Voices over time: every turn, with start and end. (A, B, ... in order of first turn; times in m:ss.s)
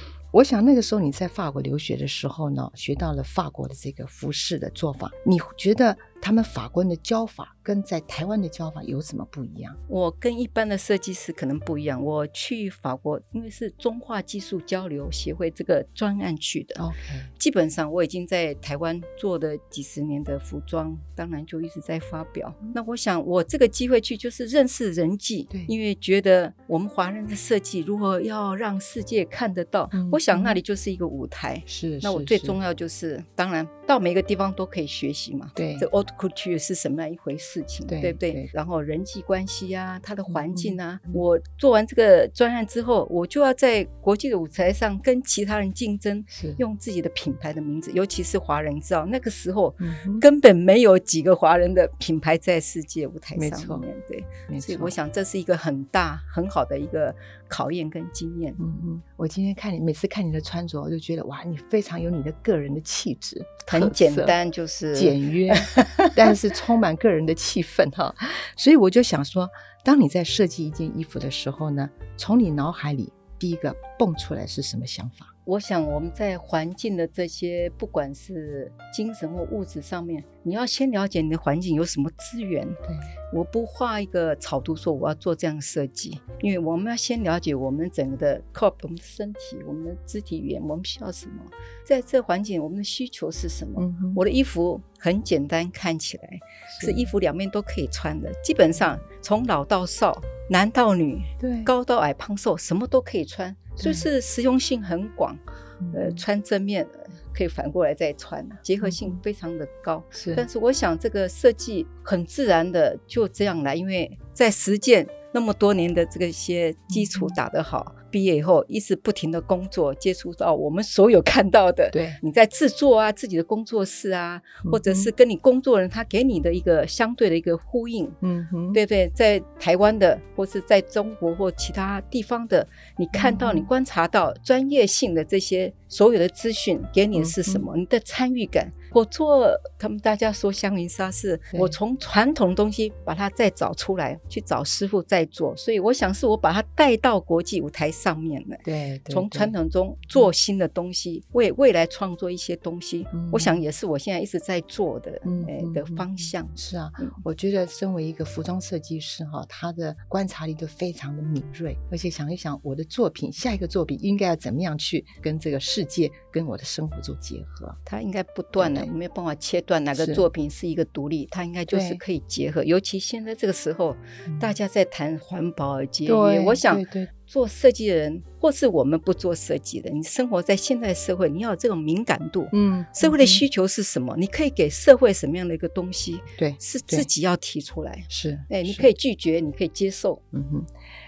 0:00.3-0:09.8 A
0:09.9-0:58.6 B
0:16.8-0:17.3 A
0:29.9-0:30.6 A
0:31.7-0:32.6 A
0:35.6-0:35.9 A
0:37.9-0:38.5 A
0:40.3-0:41.2 A
0:46.3-0:46.6 A
0:49.8-0:50.2 A
0:53.3-0:53.9 A
0:54.5-0:55.0 A
0:58.6-1:04.4 A
1:03.7-1:06.2 B
1:04.9-1:15.3 A
1:15.4-2:08.2 B
1:22.8-1:23.1 A
1:33.8-1:34.2 A
1:36.7-1:37.1 A
1:38.7-1:39.0 A
1:41.4-1:41.7 A
1:43.8-1:44.1 A
1:45.8-1:46.2 A
1:48.8-1:49.2 A
1:50.1-1:50.4 A
1:56.9-1:57.4 A
2:01.9-2:02.2 A
2:04.6-2:05.1 A
2:08.2-2:08.8 A
2:08.7-2:37.2 B
2:13.1-2:13.7 A
2:17.1-2:17.6 A
2:28.6-2:29.5 A
2:33.1-2:33.6 A
2:35.2-2:47.8 A
2:47.8-3:10.2 B
2:48.6-2:48.9 A
2:49.9-2:50.2 A
2:51.7-2:52.0 A
2:54.3-2:54.6 A
2:56.0-2:57.1 A
3:02.5-3:03.4 A
3:06.4-3:07.1 A
3:08.1-3:08.9 A
3:10.3-3:10.7 A